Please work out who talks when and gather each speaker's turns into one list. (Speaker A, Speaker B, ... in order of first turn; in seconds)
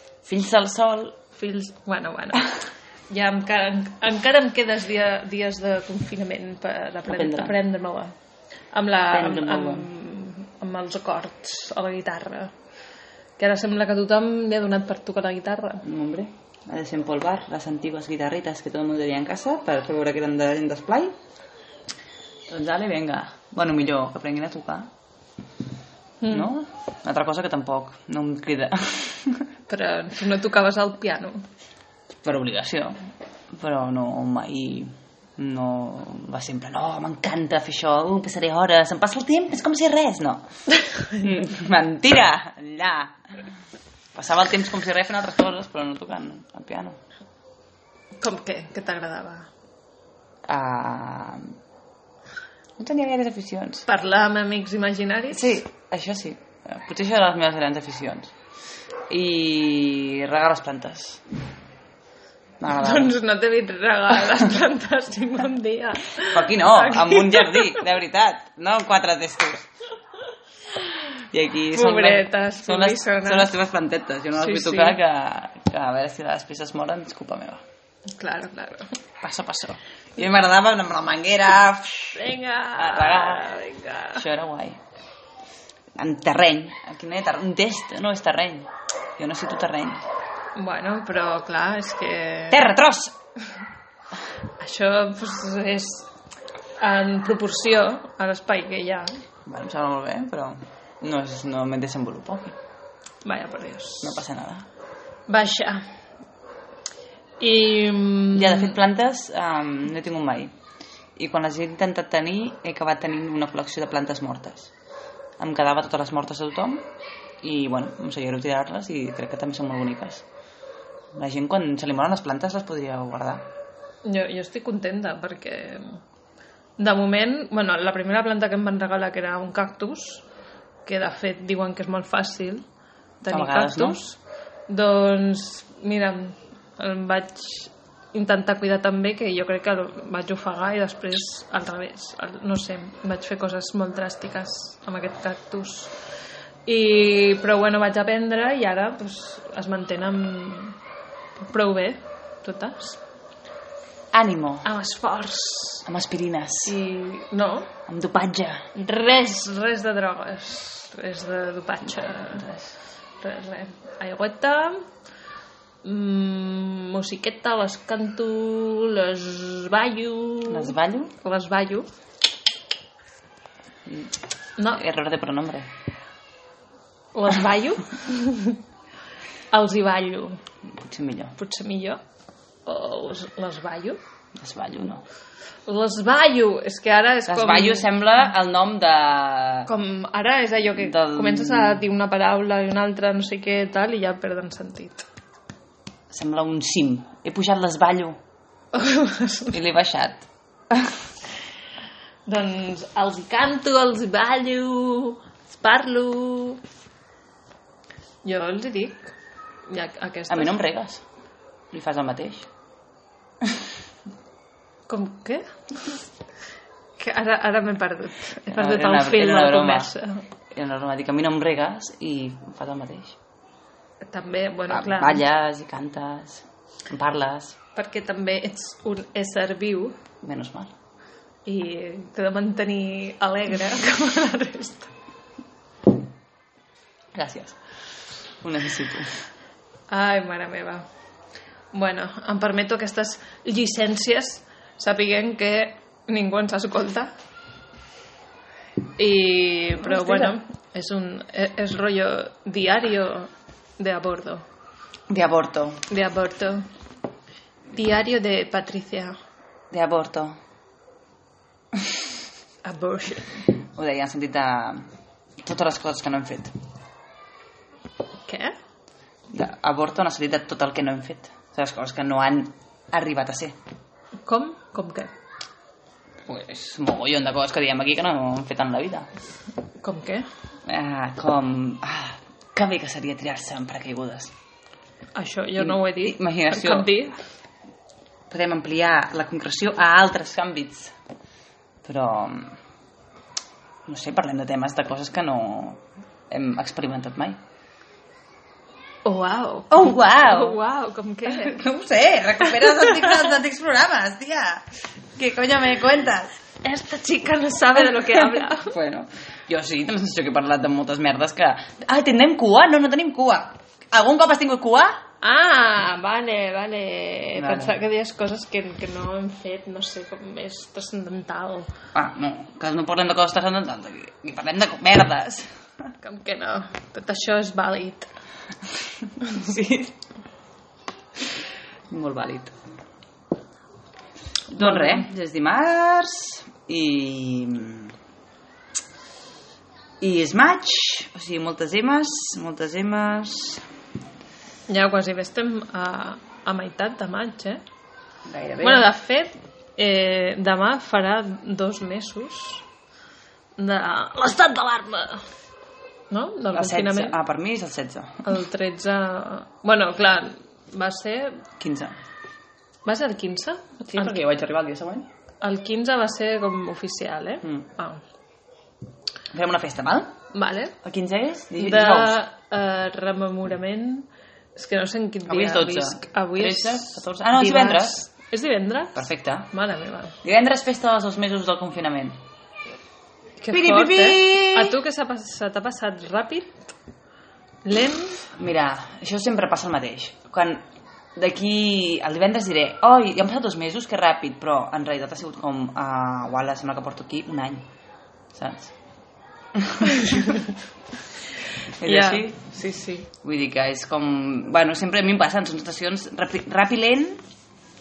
Speaker A: 0.2-1.2, 7.1-7.6, 9.1-9.9, 15.8-21.1, 22.5-24.9, 26.3-29.4, 32.2-33.0, 33.5-40.5, 41.1-43.1, 44.1-47.0, 50.5-51.5, 52.8-53.9, 55.3-58.3, 59.1-61.2, 62.6-63.1, 66.2-69.7, 71.3-77.6, 79.2-82.2, 82.8-83.5, 84.1-84.8, 86.0-90.1, 92.5-93.2, 99.5-102.6, 104.0-104.7, 108.3-110.5, 111.2-114.7, 115.4-116.8, 117.4-120.2, 121.2-123.4, 133.3-134.0, 154.1-154.7, 155.9-156.8, 157.9-158.7, 161.8-162.8, 170.5-171.2, 173.9-174.1, 174.7-175.7, 180.8-181.3, 184.4-185.0, 187.3-189.7, 190.8-191.8, 196.1-198.2, 199.5-200.9, 210.3-211.0, 211.7-212.5, 218.5-219.9, 220.5-223.2, 224.7-227.6, 230.2-230.7, 237.1-237.6, 238.4-239.2, 249.8-250.4, 255.1-255.8, 259.7-260.4, 263.7-264.9, 265.4-266.5, 269.3-273.5, 276.3-279.1, 280.7-284.3, 285.6-286.9, 288.3-290.9, 291.8-292.6, 293.9-297.4, 299.7-300.6, 301.3-304.6, 305.2-306.3, 308.1-314.9, 317.4-317.8, 321.9-325.5, 329.2-330.0, 331.9-332.5, 334.5-337.9, 340.0-343.6, 348.3-348.9, 356.5-358.3, 361.6-362.0, 363.9-365.1, 369.3-370.1, 370.8-372.2, 375.3-378.0, 379.0-379.5, 380.2-382.2, 383.5-384.8, 388.3-390.6, 391.2-397.7, 398.3-398.7, 399.6-400.4, 401.8-402.5, 403.2-407.2
Speaker B: 1.3-8.1, 8.7-12.5, 13.4-15.8, 26.2-26.5, 29.7-31.4, 48.2-49.5, 53.9-55.6, 62.7-67.8, 71.7-73.5, 74.4-75.0, 78.1-79.0, 82.2-84.2, 90.6-92.7, 94.6-96.1, 96.8-99.1, 103.2-104.2, 105.3-105.8, 107.4-108.8, 124.0-126.0, 126.8-130.3, 130.9-132.6, 133.2-145.9, 146.7-150.8, 151.4-153.0, 154.7-155.9, 156.7-157.7, 158.8-162.5, 163.2-164.8, 165.8-171.9, 174.6-174.8, 177.1-178.6, 179.5-180.4, 181.3-182.0, 182.7-184.0, 185.7-187.9, 189.7-195.1, 198.7-199.6, 202.3-206.6, 208.2-209.1, 209.7-210.6, 214.9-216.0, 217.0-220.2, 224.0-225.2, 227.8-230.0, 231.5-234.9, 239.9-240.8, 241.7-247.1, 249.0-254.4, 255.9-256.7, 257.7-259.1, 262.6-263.5, 268.2-268.5, 274.3-275.1, 279.8-280.3, 285.1-287.2, 299.1-301.6, 302.6-303.1, 306.6-308.7, 315.2-321.7, 326.0-328.1, 334.6-335.1, 344.7-347.6, 348.6-352.6, 353.6-355.2, 356.1-357.2, 358.2-361.4, 362.9-364.2, 365.4-368.0, 370.3-370.8, 371.6-380.2, 383.4-386.7, 387.6-388.2, 400.0-400.4, 401.8-403.1